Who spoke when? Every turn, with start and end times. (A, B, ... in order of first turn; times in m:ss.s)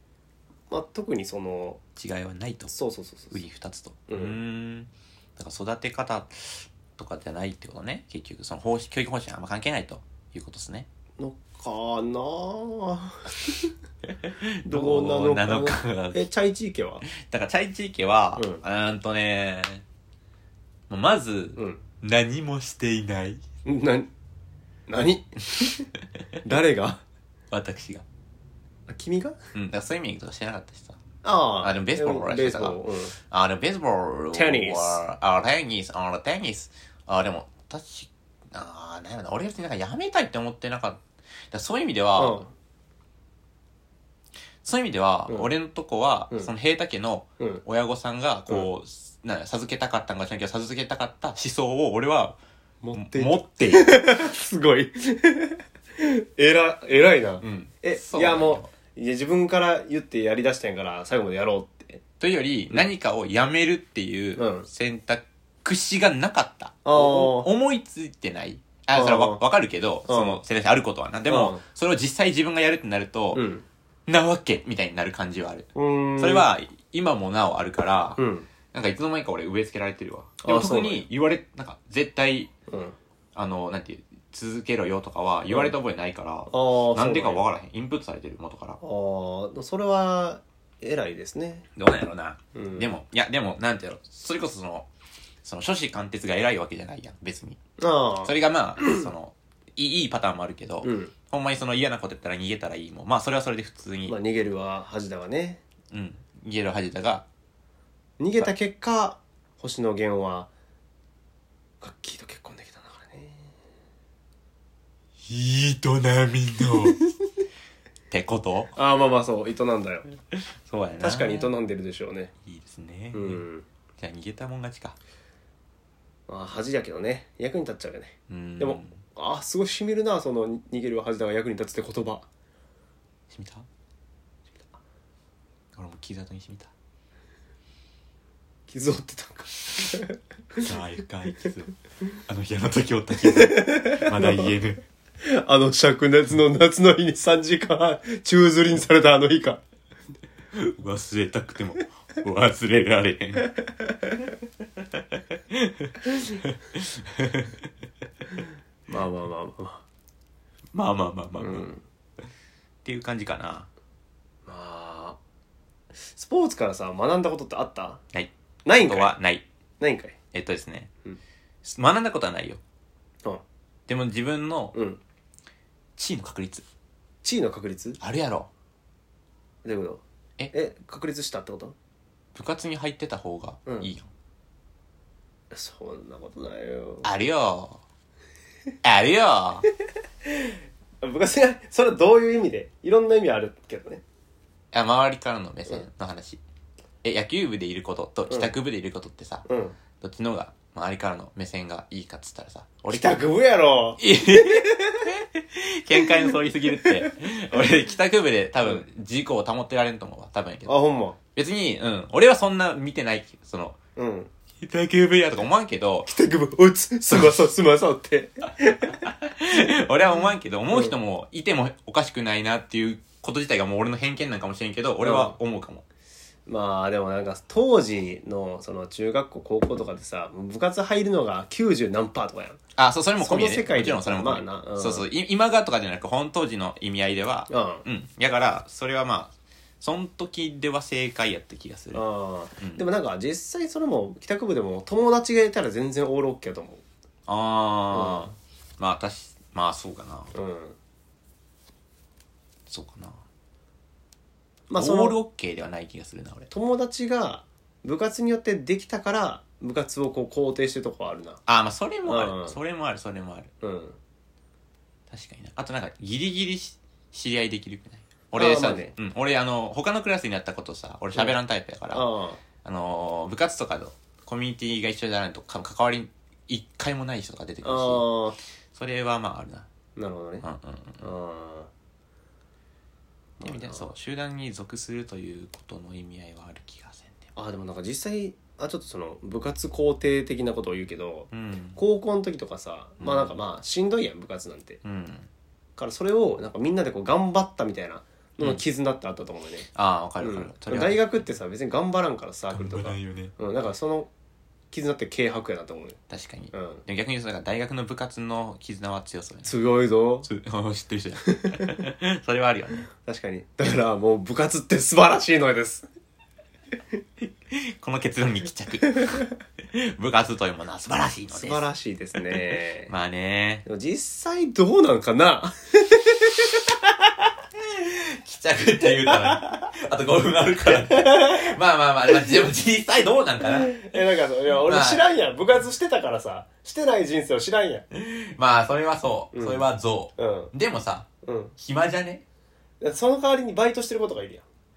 0:00.7-0:01.8 A
0:02.0-0:02.7 B
0:02.7-0:03.4 A
0:03.3-0:10.9 B
0:04.1-0:04.4 A
0:11.2-0:13.7 A
0:14.1-0:16.3 B
0:14.6-0:17.0 A
0:17.1-0:19.8 B
0:18.4-0:18.6 A
0:20.9-0:23.4 B
0:21.6-0:21.8 A
0:23.6-0:24.1 A
0:24.9-0:25.9 A
0:26.4-0:27.0 A
0:27.5-0:28.0 B
0:28.9-0:29.4 A
0:29.5-0:31.0 B
0:31.2-0:33.1 A
0:31.6-0:42.4 B
0:34.3-0:35.0 A
0:42.2-0:42.5 A
0:44.6-0:52.4 B
0:52.8-1:02.0 A
0:52.9-0:54.1 B
0:57.4-0:58.7 B
1:02.2-1:13.4 B
1:04.4-1:04.7 A
1:06.8-1:07.5 A
1:08.9-1:09.4 A
1:10.0-1:10.4 A
1:11.3-1:11.6 A
1:13.3-1:13.6 A
1:14.1-1:18.2 B
1:15.7-1:16.5 A
1:18.2-1:18.5 A
1:18.7-1:22.5 B
1:20.4-1:21.0 A
1:22.7-1:23.0 A
1:23.3-1:28.8 B
1:25.5-1:25.7 A
1:26.5-1:27.4 A
1:28.8-1:31.7 A
1:31.8-1:34.9 B
1:32.5-1:32.9 A
1:35.4-1:37.6 B
1:37.8-1:39.1 A
1:38.2-1:44.2 B
1:40.8-1:41.1 A
1:44.1-1:45.6 A
1:45.9-1:47.2 B
1:48.2-1:50.5 A
1:51.8-1:53.5 A
1:55.2-1:57.0 B
1:58.1-1:58.7 B
1:58.7-2:00.1 A
2:00.3-2:01.5 B
2:01.0-2:02.3 A
2:02.4-2:03.4 B
2:03.1-2:03.6 A
2:04.0-2:05.0 B
2:06.3-2:12.3 A
2:08.3-2:09.0 B
2:13.3-2:13.6 B
2:15.7-2:16.7 B
2:18.7-2:20.2 A
2:20.6-2:21.7 B
2:22.3-2:24.8 B
2:23.3-2:24.5 A
2:25.2-2:29.6 A
2:30.5-2:33.5 B
2:35.0-2:37.7 B
2:38.9-2:39.8 A
2:40.7-2:41.7 B
2:41.4-2:41.8 A
2:42.8-2:43.7 B
2:44.4-2:45.2 A
2:46.0-2:48.0 A
2:48.1-2:49.4 B
2:48.6-2:49.2 A
2:49.8-2:50.2 A
2:50.3-2:50.9 B
2:51.6-2:52.6 B
2:53.9-2:54.7 B
2:54.7-2:55.0 A
2:56.0-2:56.6 B
2:57.2-2:58.0 A
2:58.0-2:58.5 B
2:59.6-3:01.8 A
3:02.3-3:04.1 B
3:05.5-3:07.1 A
3:07.0-3:07.8 B
3:08.8-3:09.6 B
3:10.2-3:14.0 A
3:14.7-3:16.4 B
3:17.0-3:19.4 B
3:18.3-3:18.5 A
3:19.4-3:19.8 A
3:20.0-3:23.2 B
3:22.9-3:25.2 A
3:24.0-3:30.7 B
3:30.6-3:31.2 A
3:31.3-3:33.8 B
3:34.0-3:34.3 A
3:34.6-3:36.1 B
3:36.0-3:39.0 A
3:39.0-3:45.8 B
3:45.0-3:45.4 A
3:46.5-3:52.6 A
3:52.8-4:02.0 B
3:53.2-3:55.1 A
3:57.5-3:57.8 A
4:01.9-4:06.8 A
4:02.6-4:02.8 B
4:07.3-4:10.3 B
4:07.9-4:08.3 A
4:10.3-4:10.8 A
4:12.7-4:13.2 B
4:14.7-4:15.2 A
4:14.8-4:16.5 B
4:16.5-4:21.4 A
4:21.5-4:23.5 B
4:22.0-4:22.6 A
4:23.6-4:24.0 A
4:25.1-4:32.0 B
4:28.4-4:28.9 A
4:31.9-4:32.4 A
4:32.6-4:38.1 B
4:37.6-4:38.4 A
4:38.7-4:39.7 B
4:40.0-4:40.4 A
4:40.4-4:41.0 B
4:41.0-4:41.7 A
4:43.4-4:47.3 B
4:43.4-4:43.9 A
4:47.4-4:54.8 A
4:51.3-4:51.8 B
4:53.0-4:53.3 B
4:54.8-4:55.3 B
4:55.8-4:59.7 A
4:59.7-5:01.0 B
5:00.2-5:04.1 A
5:02.5-5:03.3 B
5:04.7-5:06.0 A
5:06.1-5:09.5 B
5:06.5-5:06.8 A
5:09.4-5:10.3 A
5:10.2-5:12.9 B
5:11.3-5:11.7 A
5:13.0-5:15.8 A
5:17.5-5:21.6 B
5:21.3-5:22.9 A
5:22.9-5:23.6 B
5:23.6-5:27.3 A
5:27.6-5:33.8 B
5:30.7-5:31.5 A
5:33.6-5:37.8 A
5:34.7-5:35.0 B
5:37.9-5:41.1 B
5:39.3-5:40.5 A
5:41.2-5:41.5 A
5:41.6-5:42.2 B
5:42.8-5:44.4 A